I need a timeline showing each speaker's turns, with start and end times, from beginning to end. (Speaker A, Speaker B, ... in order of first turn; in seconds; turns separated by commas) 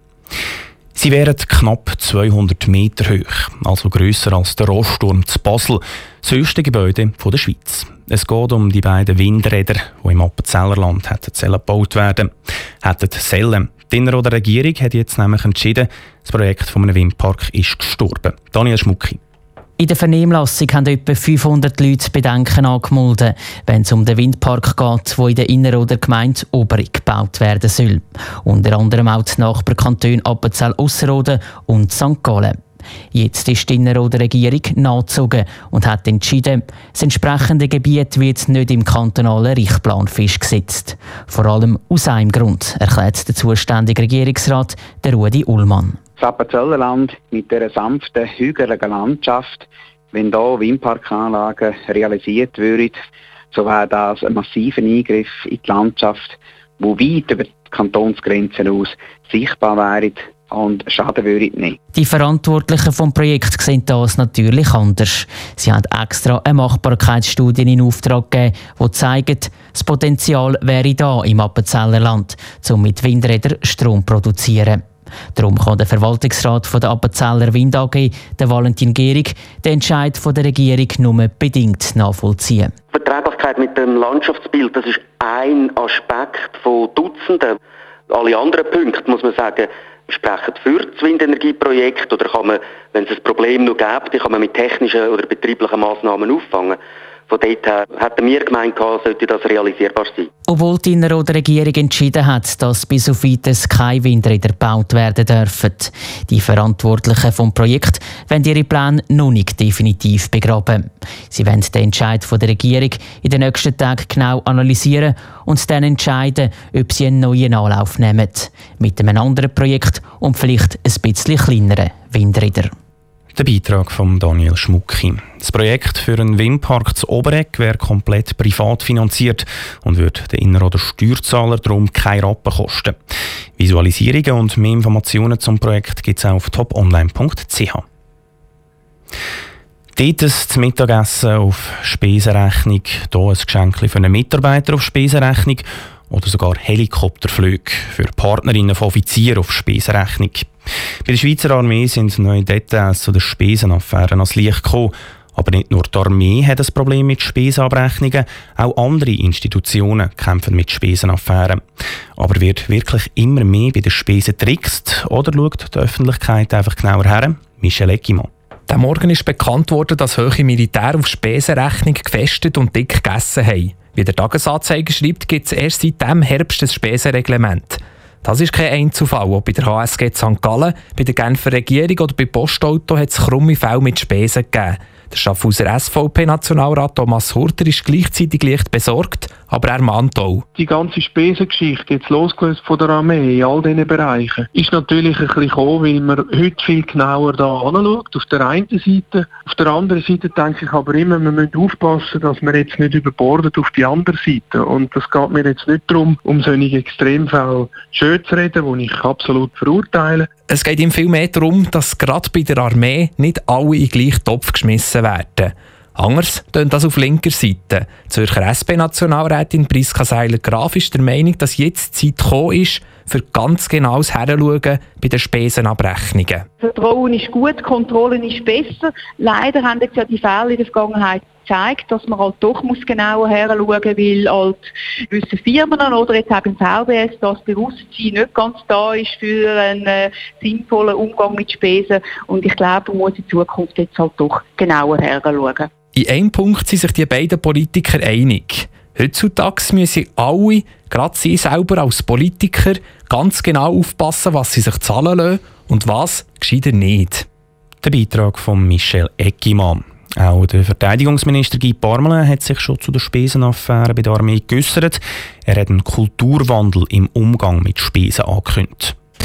Speaker A: 0.9-12.3, Speaker A: 12.8-19.2, Speaker B: 19.8-32.6, Speaker B: 33.1-46.0, Speaker C: 46.2-61.8, Speaker B: 61.9-74.8, Speaker B: 75.3-82.7, Speaker D: 82.9-87.6, Speaker D: 88.1-100.3, Speaker B: 100.5-122.7, Speaker A: 123.3-132.9, Speaker A: 133.6-137.8, Speaker A: 139.9-150.5, Speaker A: 151.0-161.6, Speaker A: 162.2-168.3, Speaker E: 168.7-190.4, Speaker F: 190.5-210.3, Speaker E: 210.5-226.4, Speaker G: 226.6-245.7, Speaker E: 245.9-257.2, Speaker A: 257.8-268.9